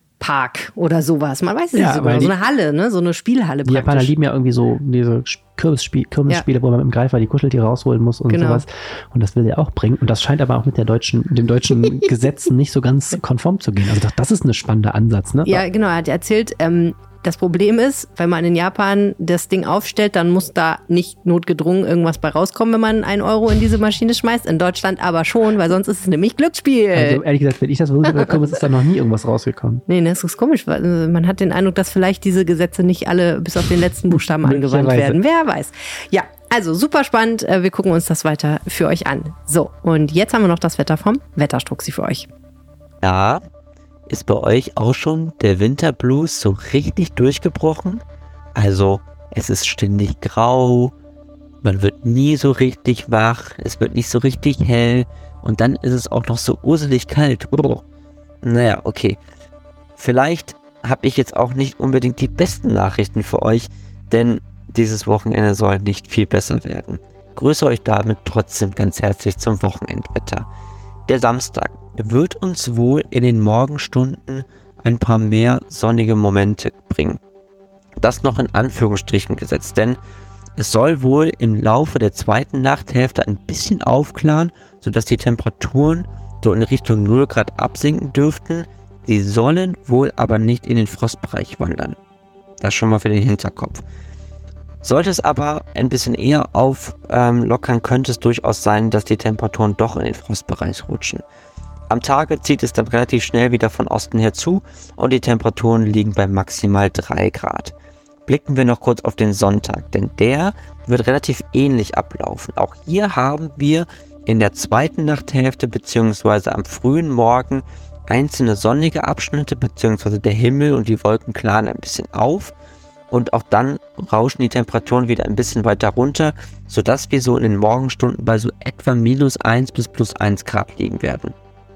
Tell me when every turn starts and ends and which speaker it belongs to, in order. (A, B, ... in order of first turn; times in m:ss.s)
0:00.2-0:04.1 A
0:01.8-0:02.3 B
0:03.6-0:15.6 B
0:08.3-0:08.6 A
0:15.4-0:27.2 A
0:26.9-0:29.8 B
0:29.9-0:42.3 A
0:34.4-0:35.2 B
0:43.0-0:43.4 C
0:44.1-0:48.0 C
0:48.5-0:50.9 C
0:51.6-0:57.8 C
0:58.4-0:59.2 C
1:00.0-1:10.4 C
1:11.1-1:17.2 C
1:18.0-1:20.0 C
1:20.6-1:32.0 C
1:32.6-1:33.8 C
1:34.8-1:41.2 C
1:41.9-1:47.7 C
1:48.3-2:02.5 C
2:03.1-2:11.3 C